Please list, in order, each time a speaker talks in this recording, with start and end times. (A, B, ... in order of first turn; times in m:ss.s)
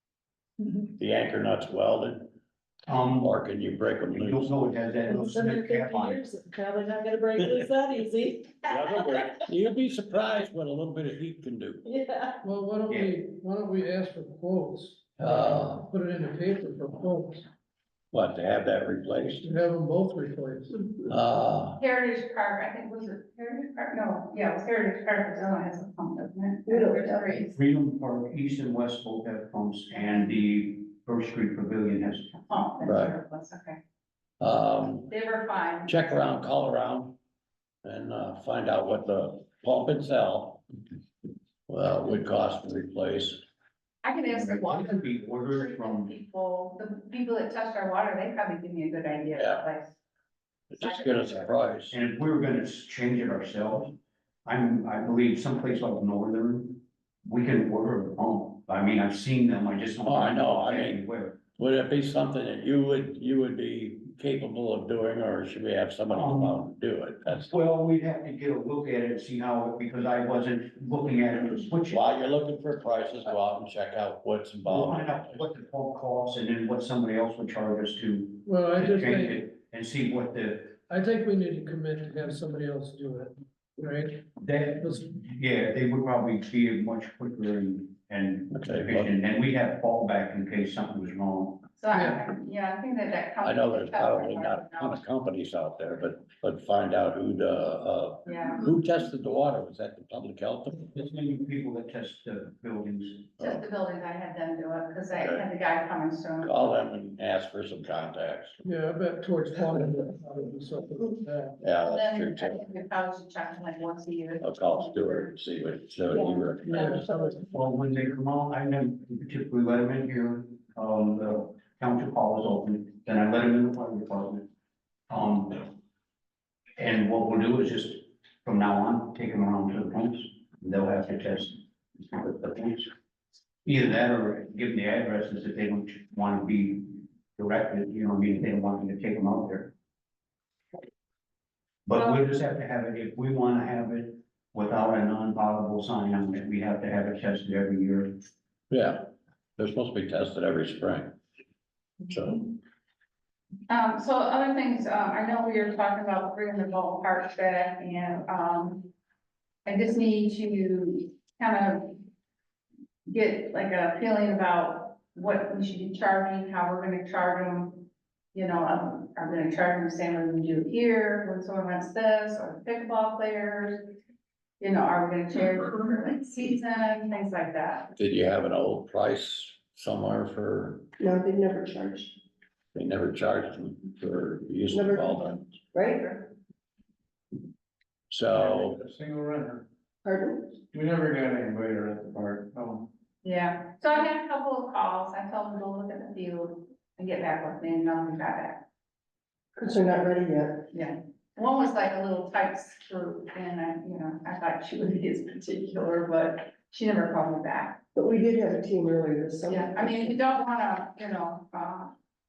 0:00.8-0:02.3 A
0:02.9-0:03.3 B
0:03.2-0:04.6 A
0:04.1-0:06.2 B
0:05.1-0:09.2 C
0:08.7-0:11.8 A
0:12.4-0:17.4 D
0:12.9-0:13.1 B
0:15.2-0:15.8 A
0:18.1-0:19.5 A
0:19.4-0:20.9 D
0:21.0-0:21.8 A
0:21.8-0:27.6 E
0:26.6-0:27.3 F
0:27.5-0:32.4 B
0:32.5-0:33.8 E
0:32.8-0:33.1 A
0:34.4-0:35.1 A
0:35.1-0:36.0 E
0:35.8-0:37.2 A
0:37.8-0:40.6 A
0:41.7-0:43.4 A
0:44.0-0:49.9 E
0:44.3-0:46.1 B
0:49.4-0:49.7 A
0:50.7-0:52.0 A
0:50.8-0:51.4 E
0:51.1-1:01.4 B
1:00.0-1:01.0 A
1:01.5-1:07.5 A
1:06.1-1:06.6 B
1:07.3-1:12.0 B
1:11.9-1:15.5 A
1:14.6-1:20.8 B
1:18.4-1:19.4 D
1:20.9-1:24.2 D
1:24.4-1:31.6 B
1:28.5-1:29.1 A
1:31.8-1:35.0 E
1:31.9-1:32.2 D
1:33.4-1:40.9 A
1:38.2-1:38.6 E
1:40.9-1:43.4 B
1:43.4-1:46.6 E
1:45.2-1:45.5 A
1:46.4-1:48.6 A
1:48.6-1:51.6 D
1:51.6-1:52.7 A
1:51.8-1:55.3 E
1:54.4-1:57.1 A
1:56.1-1:57.4 E
1:56.7-1:57.4 D
1:57.5-2:04.5 B
2:05.1-2:05.7 B
2:06.8-2:11.6 B
2:12.1-2:12.9 B
2:13.6-2:19.7 B
2:21.8-2:28.2 B
2:28.7-2:31.2 A
2:32.1-2:32.5 A
2:33.7-2:38.9 E
2:39.6-2:42.0 E
2:43.1-2:53.9 E
2:54.6-2:57.9 E
2:57.9-3:00.9 A
3:01.0-3:02.2 F
3:02.7-3:05.6 A
3:04.7-3:06.1 F
3:05.8-3:06.3 E
3:08.1-3:08.8 A
3:08.4-3:09.6 G
3:10.0-3:10.6 F
3:10.7-3:12.9 G
3:13.2-3:18.6 E
3:19.6-3:20.7 F
3:20.7-3:27.8 E
3:27.9-3:30.1 F
3:29.4-3:31.9 E